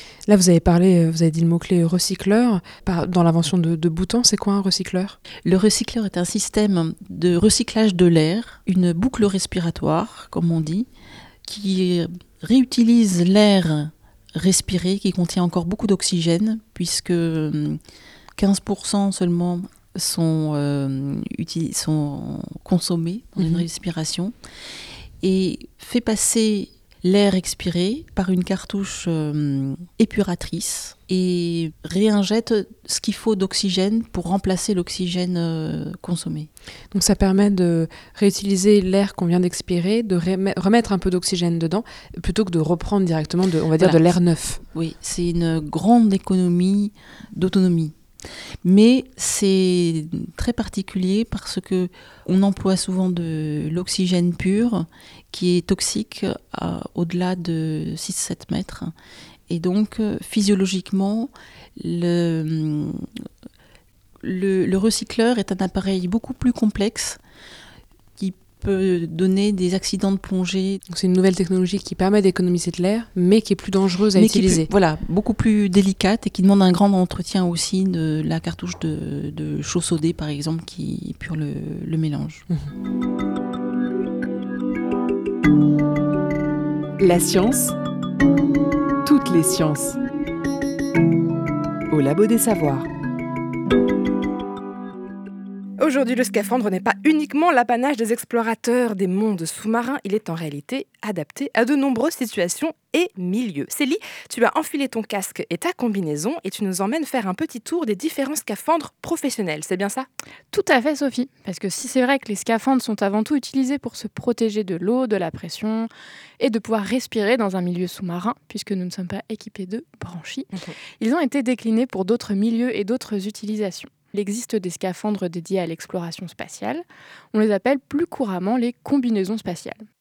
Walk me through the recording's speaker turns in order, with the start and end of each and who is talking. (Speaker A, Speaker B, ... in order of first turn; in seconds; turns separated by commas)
Speaker A: 0.3-5.2, Speaker B: 5.5-10.9, Speaker B: 11.4-17.8, Speaker B: 18.4-24.3, Speaker B: 25.2-36.5, Speaker A: 36.9-44.6, Speaker B: 43.8-44.1, Speaker B: 44.7-48.0, Speaker B: 48.6-58.9, Speaker B: 59.5-63.2, Speaker B: 64.2-67.2, Speaker B: 68.2-70.8, Speaker A: 70.9-74.7, Speaker B: 74.2-82.4, Speaker C: 87.0-87.8, Speaker C: 89.0-90.0, Speaker C: 91.9-92.9, Speaker D: 95.8-110.1, Speaker E: 110.5-115.9, Speaker E: 116.4-129.8